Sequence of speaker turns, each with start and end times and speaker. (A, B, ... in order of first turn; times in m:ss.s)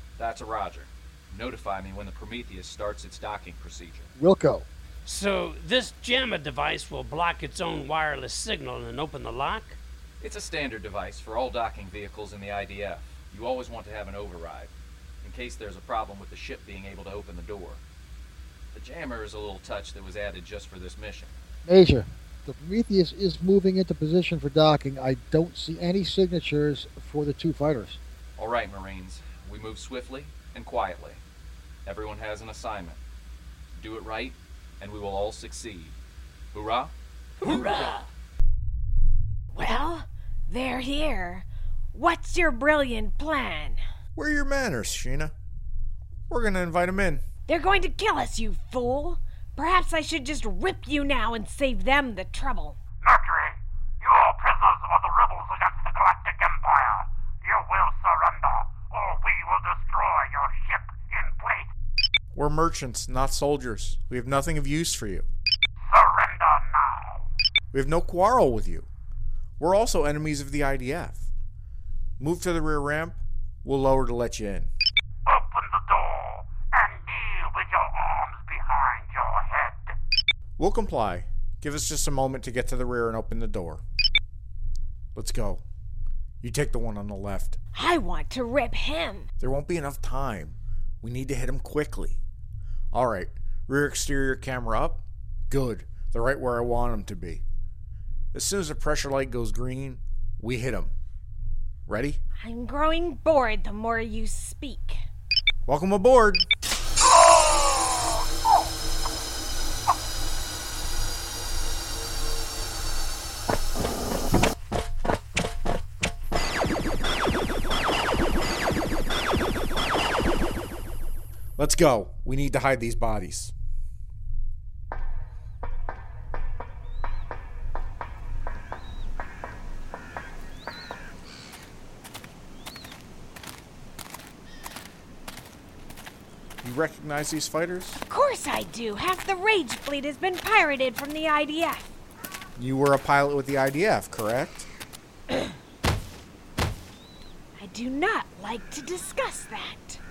0:00.2-0:04.1 A
0:04.2-0:04.6 B
0:05.0-0:09.8 C
0:10.2-0:17.8 A
0:18.7-0:21.3 A
0:21.6-0:28.0 B
0:28.4-0:31.2 A
0:31.8-0:33.0 A
0:33.7-0:36.0 A
0:36.5-0:36.9 A
0:37.4-0:37.9 D
0:39.5-0:43.8 D
0:44.1-0:45.3 E
0:46.3-0:47.2 E
0:47.5-0:52.8 D
0:53.0-1:01.6 F
1:02.3-1:05.3 E
1:05.9-1:07.1 F
1:07.7-1:08.9 E
1:09.6-1:11.3 E
1:12.2-1:14.7 E
1:15.3-1:19.7 F
1:20.6-1:23.8 E
1:25.1-1:25.6 E
1:26.4-1:27.6 E
1:27.7-1:29.3 D
1:29.4-1:32.2 E
1:32.9-1:37.4 E
1:38.3-1:40.9 E
1:41.9-1:42.2 E
1:42.4-1:45.0 D
1:45.6-1:46.5 E
2:01.6-2:03.5 E
2:16.6-2:18.0 E
2:18.1-2:21.9 D
2:22.6-2:24.7 E
2:27.6-2:30.0 D